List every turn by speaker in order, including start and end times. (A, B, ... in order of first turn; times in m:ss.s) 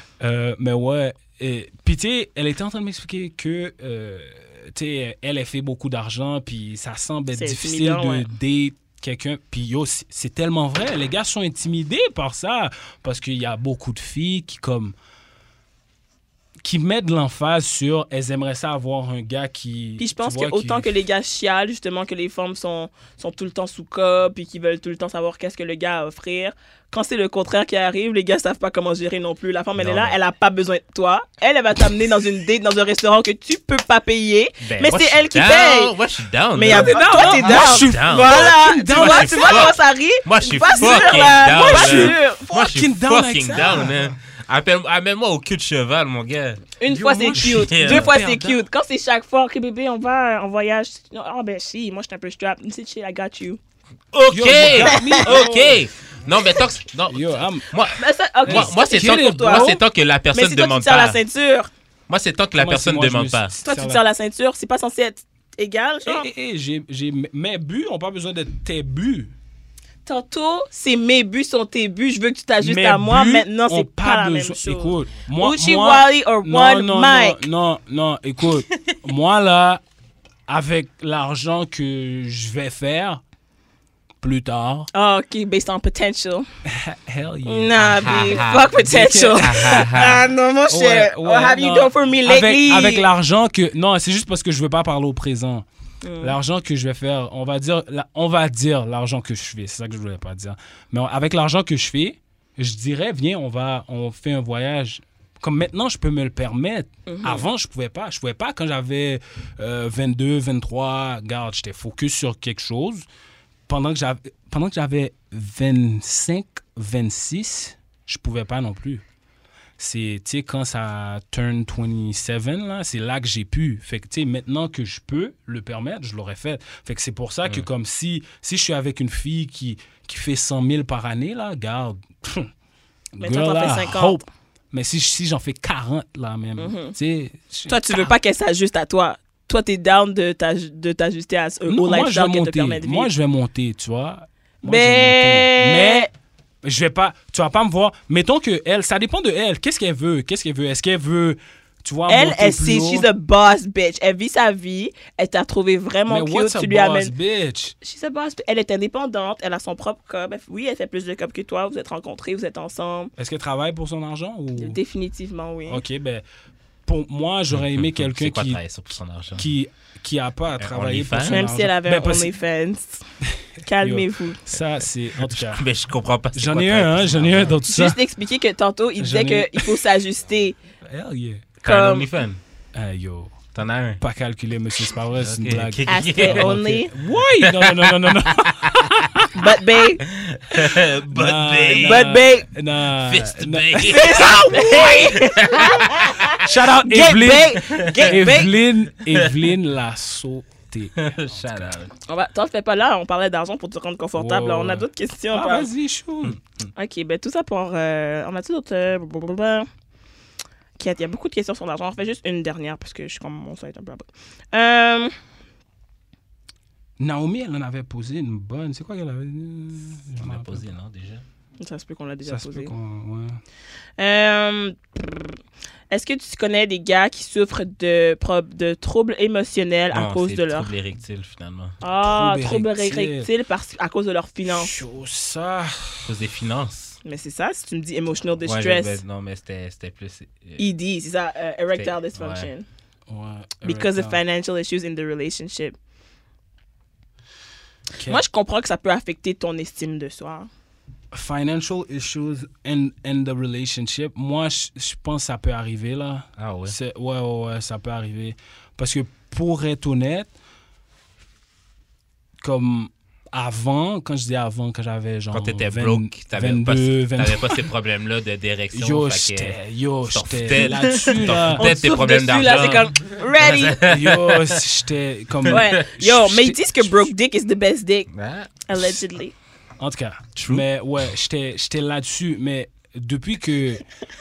0:00.2-0:14.9 A
0:07.3-0:08.3 B
0:16.6-0:20.9 A
0:20.0-0:35.9 B
0:29.8-0:30.2 C
0:34.6-0:46.7 C
0:36.5-0:42.4 B
0:36.6-0:39.8 A
0:40.8-0:44.0 A
0:46.8-0:53.6 B
0:46.8-0:48.6 A
0:47.4-0:48.1 C
0:54.1-1:01.2 C
0:54.3-0:55.8 A
0:54.8-0:55.4 B
0:57.1-0:57.7 A
0:57.9-0:59.8 B
0:58.4-0:59.8 A
1:00.3-1:01.7 B
1:02.1-1:03.5 C
1:02.5-1:04.0 A
1:03.6-1:06.3 B
1:06.0-1:09.3 A
1:10.0-1:17.4 B
1:12.6-1:19.8 A
1:20.5-1:23.2 A
1:24.2-1:24.9 A
1:24.9-1:26.5 B
1:26.6-1:29.9 A
1:27.4-1:33.1 B
1:27.9-1:28.7 C
1:29.4-1:30.2 C
1:30.7-1:35.6 A
1:36.0-1:36.4 B
1:36.2-1:53.0 A
1:47.0-1:47.4 B
1:53.7-1:59.0 A
1:59.8-2:12.5 A
2:13.1-2:18.1 A
2:13.2-2:14.2 B
2:16.6-2:16.9 B
2:17.7-2:23.1 B
2:21.7-2:26.1 A
2:24.6-2:26.1 B
2:26.6-2:33.1 A
2:32.1-2:37.1 B
2:36.1-2:37.7 A
2:37.8-2:43.1 B
2:43.2-2:44.8 A
2:44.6-2:45.8 B
2:45.7-2:46.2 A
2:46.8-2:48.6 A
2:47.5-2:49.5 C
2:49.3-2:52.3 A
2:50.6-2:51.4 C
2:51.2-2:53.0 B
2:53.6-2:54.4 B
2:53.8-2:55.6 A
2:55.2-2:57.6 C
2:56.3-2:58.0 A
2:57.7-3:00.6 B
2:59.0-2:59.7 A
3:00.8-3:01.6 A
3:01.6-3:02.1 B
3:01.6-3:02.4 C
3:02.7-3:03.4 A
3:03.5-3:04.0 C
3:04.0-3:09.3 A
3:05.2-3:06.5 C
3:05.9-3:06.9 B
3:07.4-3:08.8 C
3:09.3-3:10.0 B
3:10.0-3:12.1 C
3:10.6-3:15.2 A
3:11.8-3:12.4 B
3:13.0-3:16.4 C
3:13.9-3:18.5 B
3:16.4-3:21.8 A
3:17.6-3:18.2 C
3:19.1-3:19.3 C
3:21.0-3:21.9 C
3:22.1-3:25.7 B
3:24.2-3:26.4 A
3:26.8-3:29.7 B
3:30.8-3:35.1 B
3:37.0-3:40.6 A
3:40.2-3:41.2 C
3:41.6-3:42.7 B
3:42.2-3:43.4 A
3:44.0-3:45.4 B
3:45.9-3:50.7 B
3:49.9-3:51.8 C
3:51.8-3:54.8 B
3:52.0-3:53.3 A
3:54.5-3:56.1 A
3:56.0-3:57.0 C
3:57.0-3:59.0 B
3:58.4-4:00.6 C
4:00.6-4:02.6 B
4:01.7-4:02.5 C
4:03.1-4:04.2 A
4:03.6-4:05.8 B
4:08.0-4:08.2 A
4:08.1-4:10.5 B
4:11.1-4:20.3 A
4:16.4-4:16.8 C
4:22.4-4:27.6 A
4:25.3-4:34.6 C
4:28.7-4:31.8 A
4:31.5-4:33.8 B
4:33.8-4:37.1 A
4:35.5-4:38.1 B
4:38.1-4:38.9 C
4:38.7-4:39.3 B
4:39.8-4:43.8 A
4:40.4-4:40.6 C